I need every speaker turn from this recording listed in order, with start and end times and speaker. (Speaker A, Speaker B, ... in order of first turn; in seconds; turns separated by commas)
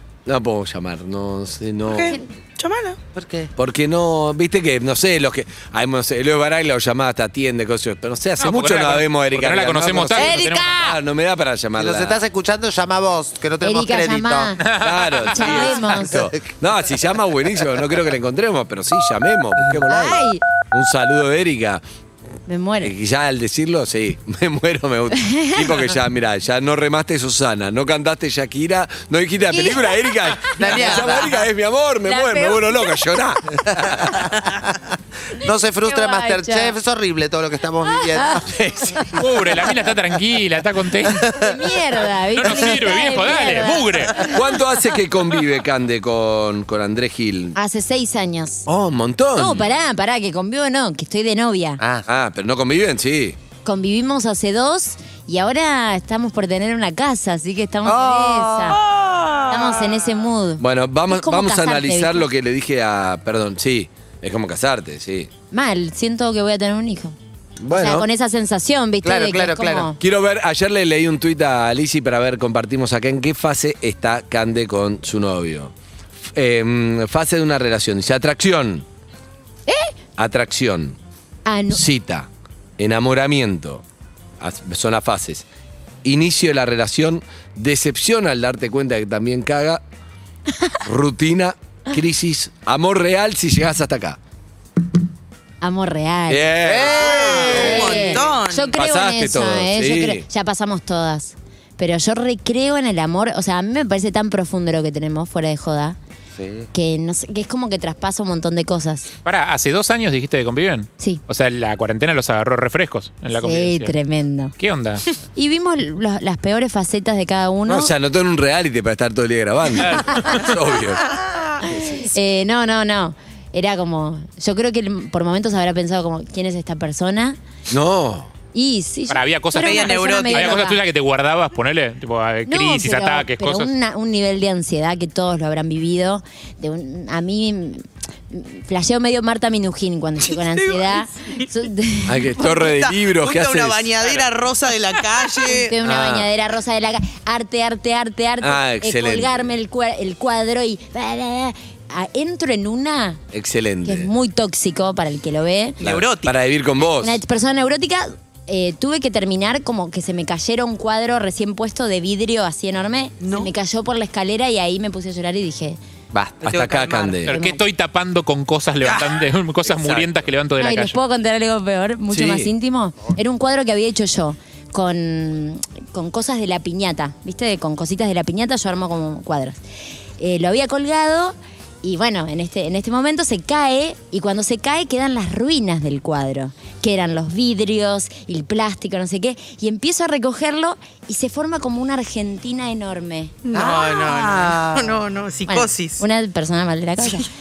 Speaker A: 0.3-2.2, Speaker B: 1.9-3.0, Speaker C: 3.1-3.5, Speaker A: 3.6-12.2, Speaker D: 8.4-10.8, Speaker C: 10.2-10.9, Speaker C: 11.8-14.5, Speaker E: 13.6-16.3, Speaker D: 14.6-15.5, Speaker A: 14.7-21.8, Speaker E: 19.9-20.4, Speaker E: 22.5-22.9, Speaker A: 22.8-34.3, Speaker E: 25.1-25.7, Speaker E: 29.5-29.9, Speaker E: 30.6-31.0, Speaker C: 30.6-31.4, Speaker E: 32.1-33.0, Speaker C: 33.8-34.6, Speaker C: 35.4-38.5, Speaker E: 35.4-36.8, Speaker E: 38.0-38.4, Speaker A: 38.5-39.1, Speaker D: 39.1-41.3, Speaker E: 41.3-44.4, Speaker D: 42.4-44.3, Speaker A: 44.2-47.6, Speaker E: 47.5-48.7, Speaker A: 48.7-49.7, Speaker E: 49.4-51.8, Speaker C: 51.8-52.1, Speaker A: 52.1-53.4, Speaker E: 53.6-58.8, Speaker C: 57.9-58.8, Speaker B: 58.8-59.8, Speaker E: 59.5-62.3, Speaker A: 60.6-65.3, Speaker E: 65.5-67.2, Speaker A: 67.6-68.1, Speaker E: 67.8-70.0, Speaker C: 69.0-69.9, Speaker A: 70.0-75.7, Speaker A: 76.3-78.9, Speaker E: 79.7-79.9, Speaker A: 80.2-81.0, Speaker E: 81.5-81.8, Speaker A: 81.7-83.8, Speaker A: 84.4-85.5, Speaker A: 86.0-89.8, Speaker A: 90.8-94.2, Speaker E: 95.6-96.5, Speaker A: 96.3-97.9, Speaker C: 96.6-98.2, Speaker B: 97.0-98.7, Speaker E: 97.3-106.0, Speaker A: 98.8-100.2, Speaker C: 106.4-106.7, Speaker E: 106.7-109.1, Speaker D: 109.2-113.9, Speaker E: 113.3-114.6, Speaker D: 114.6-115.0, Speaker E: 115.4-117.9, Speaker A: 117.7-121.0, Speaker D: 119.9-120.2, Speaker E: 121.6-127.4, Speaker A: 127.7-128.3, Speaker E: 128.5-130.8, Speaker D: 129.1-133.7, Speaker B: 129.6-130.7, Speaker E: 132.5-142.6, Speaker B: 140.3-141.5, Speaker A: 142.1-143.9, Speaker B: 142.4-145.7, Speaker E: 145.4-153.2, Speaker A: 145.8-146.3, Speaker A: 148.4-149.5, Speaker A: 153.3-154.1, Speaker E: 153.8-155.8, Speaker B: 155.8-156.3, Speaker A: 155.8-157.2, Speaker E: 157.0-165.8, Speaker B: 163.2-163.5, Speaker A: 166.1-167.3, Speaker B: 166.4-167.2, Speaker D: 167.3-171.0, Speaker E: 167.3-167.6, Speaker A: 168.8-169.1, Speaker A: 169.6-170.2, Speaker E: 170.6-179.6, Speaker A: 172.1-172.5, Speaker E: 180.2-193.4, Speaker B: 193.5-196.0, Speaker C: 193.5-195.0, Speaker E: 195.5-197.3